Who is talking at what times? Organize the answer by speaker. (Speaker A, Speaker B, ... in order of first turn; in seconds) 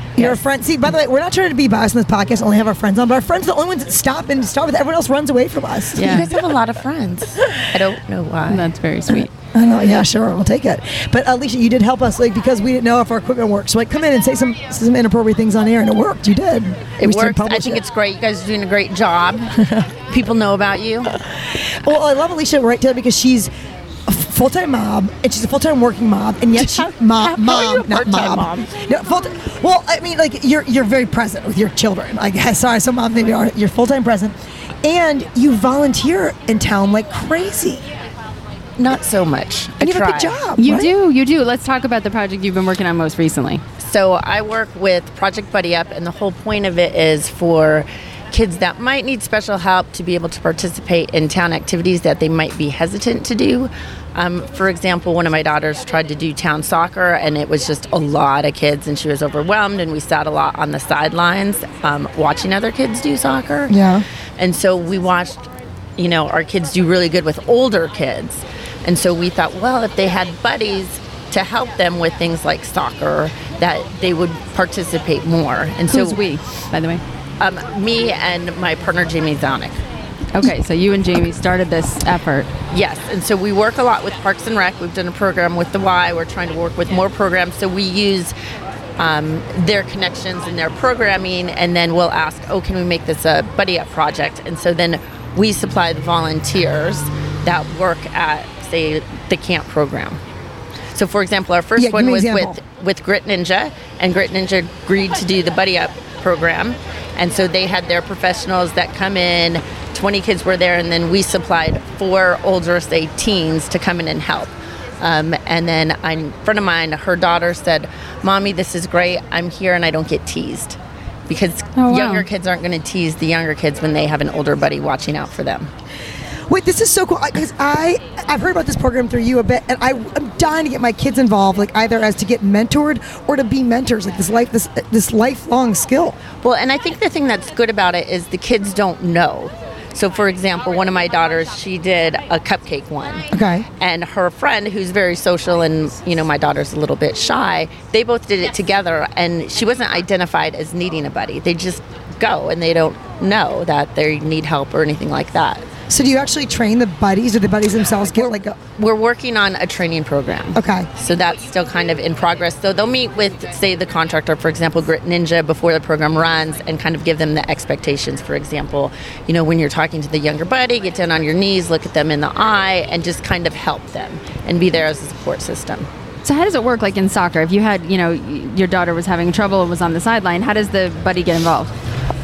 Speaker A: 0.2-6.3, 9.5-17.8, 21.8-23.5, 24.1-37.8, 39.8-40.9, 63.7-64.0, 101.8-102.6, 126.5-136.2, 143.3-143.7, 155.9-158.6, 160.5-160.9
Speaker B: 6.0-6.3, 8.5-9.3, 40.6-43.6, 75.9-77.0, 80.3-82.5, 121.8-122.3, 176.2-181.7
Speaker C: 6.0-8.7, 17.0-19.5, 20.1-21.1, 26.6-28.7, 38.8-40.4, 43.8-63.8, 64.4-65.4, 66.0-76.2, 77.4-79.8, 82.7-88.3, 89.0-100.2, 100.9-125.7, 136.3-143.3, 143.8-155.7, 158.2-175.9